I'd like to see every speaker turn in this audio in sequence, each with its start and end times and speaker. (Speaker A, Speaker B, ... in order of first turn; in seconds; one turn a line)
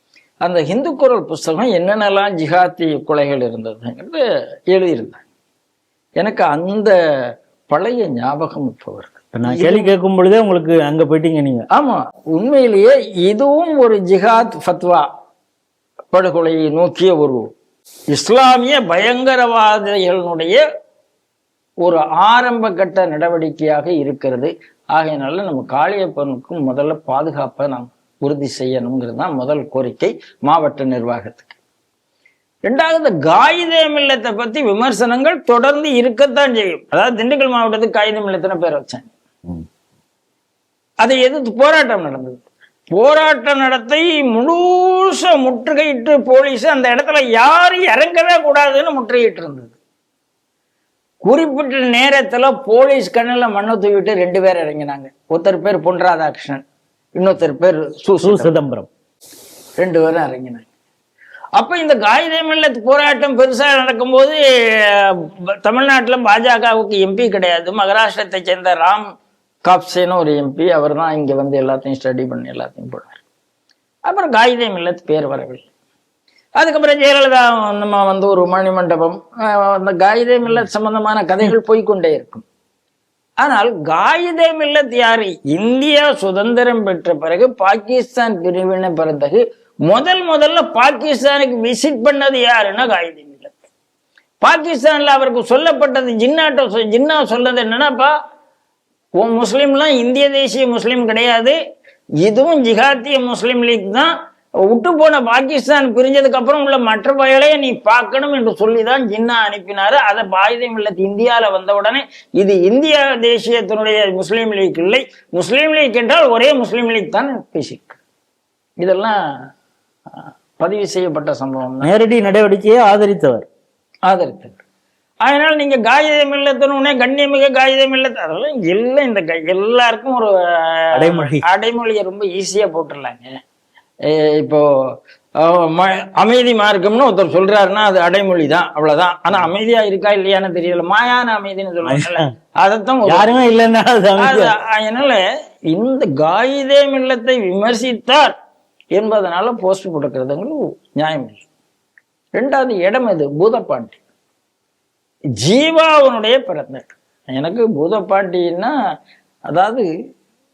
Speaker A: 0.4-5.2
Speaker A: 6.2-6.9
Speaker A: 7.7-9.9
Speaker B: 9.3-11.7
Speaker A: 11.7-15.1
Speaker A: 16.1-17.4
Speaker A: 18.1-20.6
Speaker A: 21.8-31.6
Speaker A: 32.7-39.1
Speaker A: 41.0-49.8
Speaker A: 51.2-56.6
Speaker A: 57.2-58.5
Speaker B: 58.2-58.9
Speaker A: 59.8-60.7
Speaker A: 61.6-69.0
Speaker A: 69.7-73.2
Speaker A: 74.1-75.7
Speaker A: 76.6-82.5
Speaker A: 83.4-93.5
Speaker A: 94.4-98.1
Speaker A: 99.2-101.6
Speaker A: 102.2-104.1
Speaker A: 104.7-118.0
Speaker A: 118.8-119.2
Speaker A: 120.1-121.9
Speaker B: 121.8-123.5
Speaker A: 124.1-124.6
Speaker A: 125.2-133.3
Speaker B: 130.9-131.4
Speaker A: 134.1-134.6
Speaker A: 135.4-143.3
Speaker B: 141.9-142.2
Speaker B: 143.1-144.5
Speaker A: 144.2-148.3
Speaker A: 148.9-151.4
Speaker A: 152.4-154.0
Speaker A: 155.4-158.7
Speaker A: 159.5-159.9